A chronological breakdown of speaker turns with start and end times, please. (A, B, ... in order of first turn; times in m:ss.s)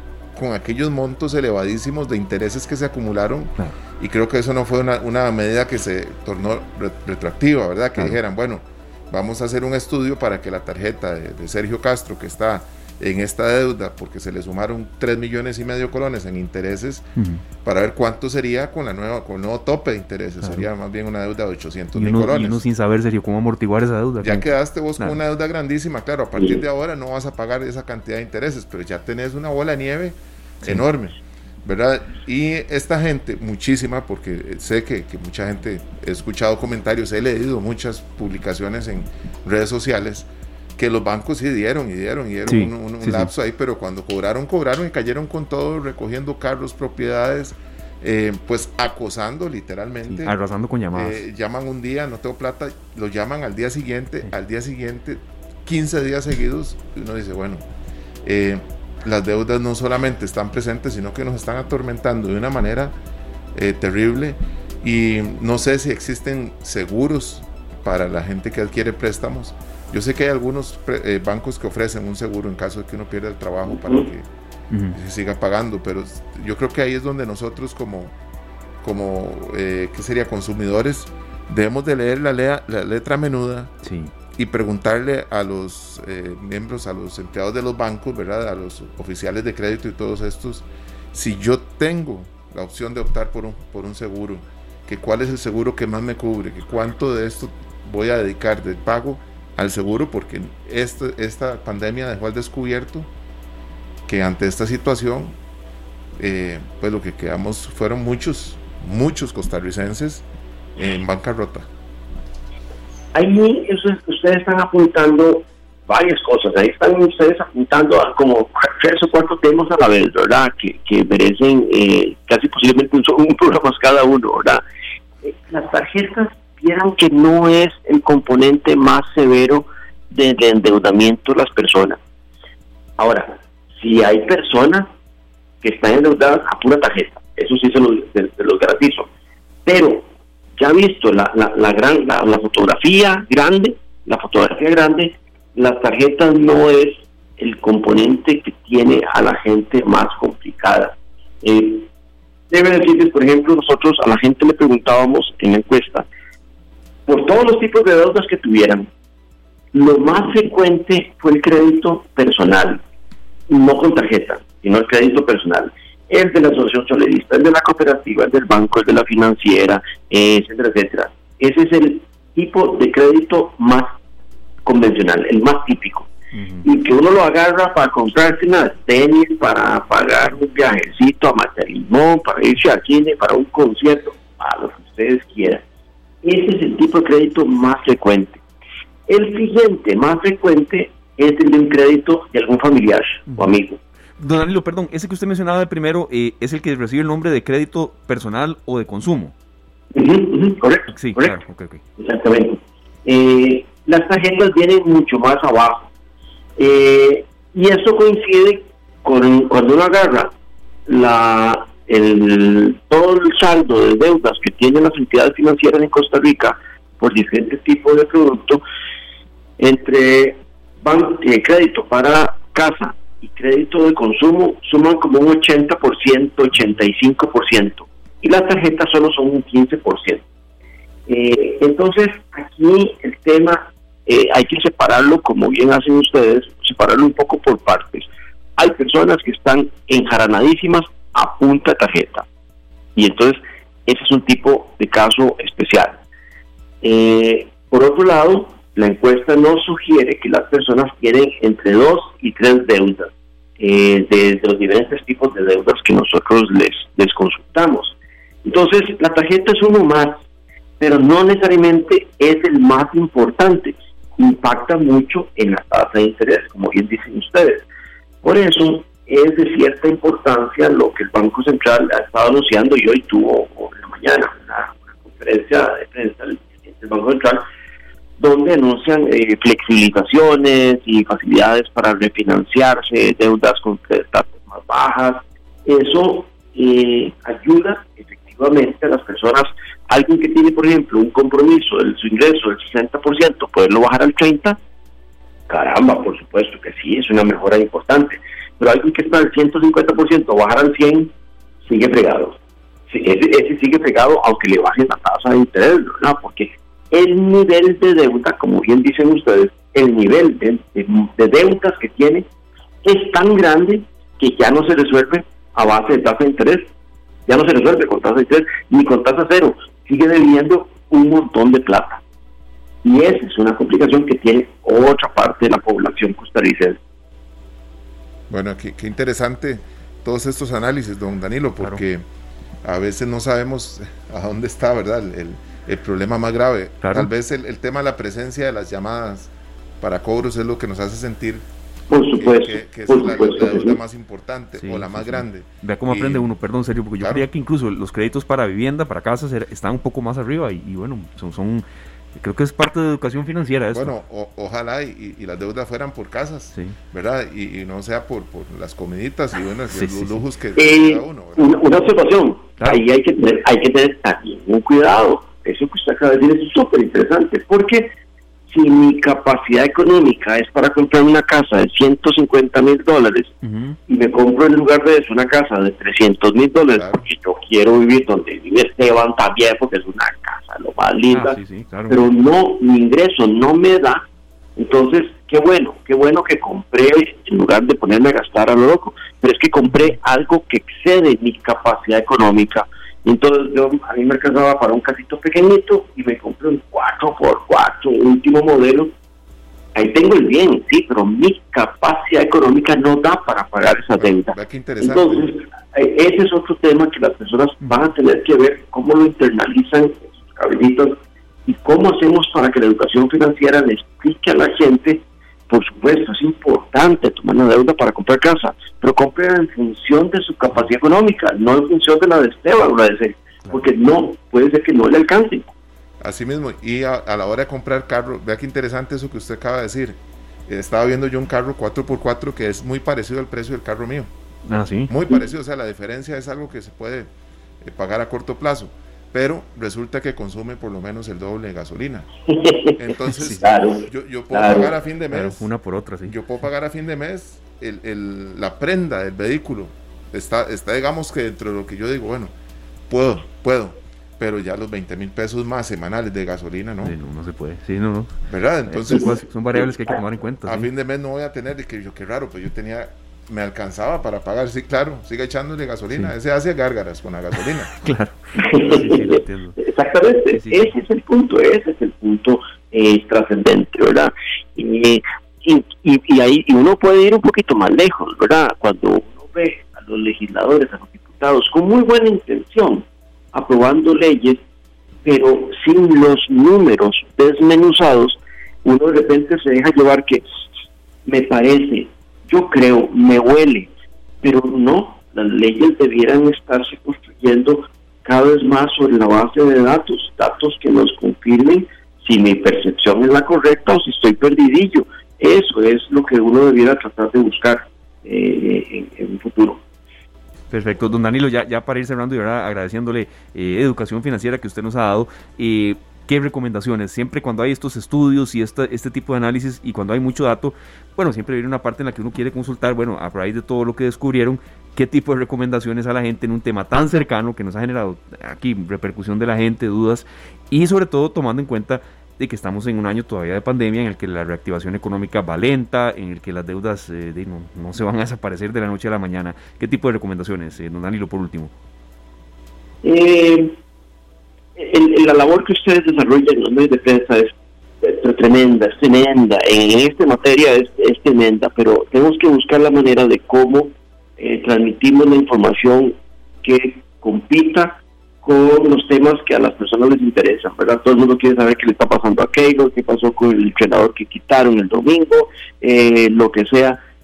0:00.4-0:17.1 A
0:17.2-0:17.4 B
0:17.6-0:22.6 A
0:22.0-0:24.4 B
0:24.2-0:50.4 A
0:42.5-0:43.3 B
0:50.1-0:51.2 B
0:50.9-0:57.6 A
0:58.2-1:03.0 A
1:03.5-1:14.3 A
1:13.7-1:14.1 C
1:14.7-1:15.0 B
1:14.9-1:18.2 A
1:18.8-1:23.7 A
1:23.8-1:24.1 B
1:24.4-1:43.1 A
1:44.1-1:45.4 A
1:46.2-1:50.2 A
1:50.8-1:51.7 A
1:53.2-2:04.6 C
2:05.2-2:12.0 C
2:13.0-2:14.9 C
2:15.6-2:19.1 C
2:19.7-2:20.1 C
2:20.6-2:31.9 C
2:32.5-2:36.1 C
2:37.1-2:38.9 C
2:39.7-2:42.8 C
2:43.5-2:54.0 C
2:54.7-2:56.1 C
2:56.3-2:56.6 B
2:56.6-3:05.6 C
3:06.2-3:08.4 C
3:09.1-3:13.8 C
3:14.2-3:19.3 B
3:19.9-3:21.4 C
3:20.9-3:21.8 B
3:22.0-3:25.9 C
3:26.6-3:30.3 C
3:30.9-3:38.6 C
3:39.6-3:50.2 C
3:51.1-4:02.2 C
4:03.0-4:06.0 C
4:06.8-4:20.2 C
4:20.8-4:27.7 C
4:28.2-4:37.4 C
4:38.2-4:54.6 C
4:55.5-5:01.1 C
5:01.7-5:02.4 C
5:02.9-5:12.3 C
5:12.8-5:16.7 C
5:17.3-5:22.0 C
5:22.8-5:26.8 C
5:28.3-5:32.1 A
5:32.6-5:41.5 A
5:36.8-5:37.1 B
5:41.9-5:43.8 C
5:42.2-5:46.3 A
5:44.6-5:51.6 B
5:47.0-5:47.3 A
5:52.2-5:53.9 B
5:53.7-6:01.8 A
5:59.7-6:00.2 B
6:00.6-6:07.9 C
6:08.5-6:13.3 C
6:13.4-6:13.8 B
6:13.9-6:21.4 C
6:16.8-6:17.1 A
6:21.1-6:22.1 B
6:21.9-6:24.0 C
6:24.6-6:38.9 C
6:29.7-6:30.0 B
6:39.8-7:05.5 C
6:43.9-6:45.3 A
6:47.6-6:47.9 B
7:06.0-7:14.1 A
7:14.5-7:14.9 B
7:14.9-7:17.1 A
7:17.6-7:22.1 A
7:22.3-7:22.8 C
7:22.8-7:25.4 A
7:23.3-7:24.7 C
7:25.1-7:26.2 B
7:26.1-7:32.3 A
7:32.9-7:37.0 A
7:36.8-7:38.2 B
7:38.3-7:39.2 A
7:38.7-7:40.7 B
7:40.4-7:47.7 A
7:47.8-7:49.6 B
7:48.4-8:04.4 C
7:50.4-7:50.7 B
8:05.0-8:10.2 C
8:11.1-8:13.7 C
8:14.2-8:29.6 C
8:30.5-9:01.5 B
9:02.8-9:03.6 C
9:04.6-9:26.8 C